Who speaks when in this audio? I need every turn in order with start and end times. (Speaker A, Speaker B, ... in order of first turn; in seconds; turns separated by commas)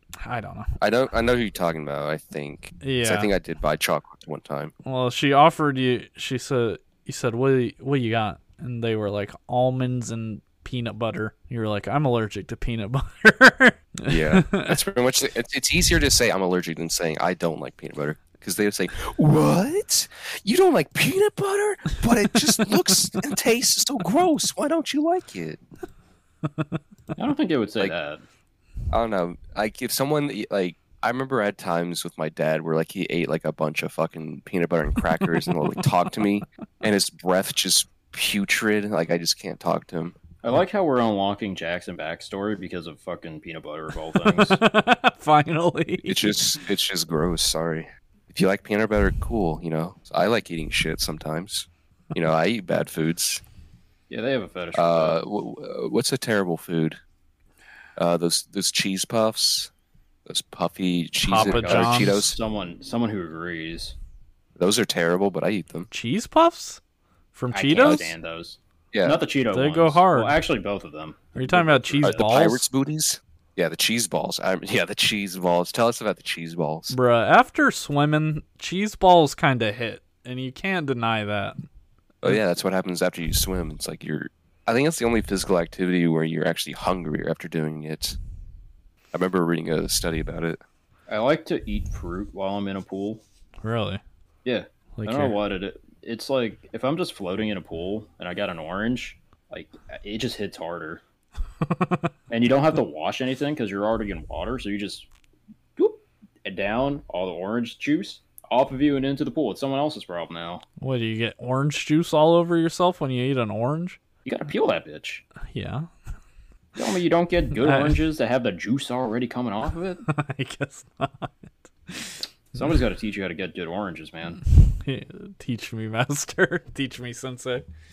Speaker A: 0.2-0.8, Speaker B: 0.8-4.7, Speaker A: 2.8-3.3, Speaker A: 4.8-14.8, Speaker B: 14.1-25.6, Speaker C: 27.2-28.2, Speaker B: 28.9-40.2, Speaker C: 40.4-44.6, Speaker A: 44.2-46.4, Speaker B: 46.1-53.4, Speaker C: 54.1-55.2, Speaker B: 54.7-57.0, Speaker B: 58.0-59.7, Speaker B: 60.3-62.4, Speaker A: 61.2-62.3, Speaker C: 61.4-64.0, Speaker B: 64.6-65.9, Speaker A: 65.9-66.8, Speaker A: 67.3-68.1, Speaker C: 67.5-72.2, Speaker B: 68.9-69.2, Speaker A: 69.5-70.4, Speaker A: 71.3-72.7, Speaker B: 72.0-76.9, Speaker A: 76.9-81.6, Speaker B: 82.2-88.2, Speaker B: 89.1-90.6, Speaker C: 91.1-93.2, Speaker A: 93.6-94.0, Speaker C: 94.5-101.0, Speaker A: 95.0-95.4, Speaker A: 101.6-102.1, Speaker C: 102.3-105.1, Speaker C: 105.8-110.7, Speaker A: 110.8-114.0, Speaker C: 114.2-115.2, Speaker A: 115.5-115.9, Speaker C: 116.8-120.0, Speaker A: 117.6-118.0, Speaker A: 120.1-122.2, Speaker C: 122.5-124.4, Speaker A: 124.5-127.7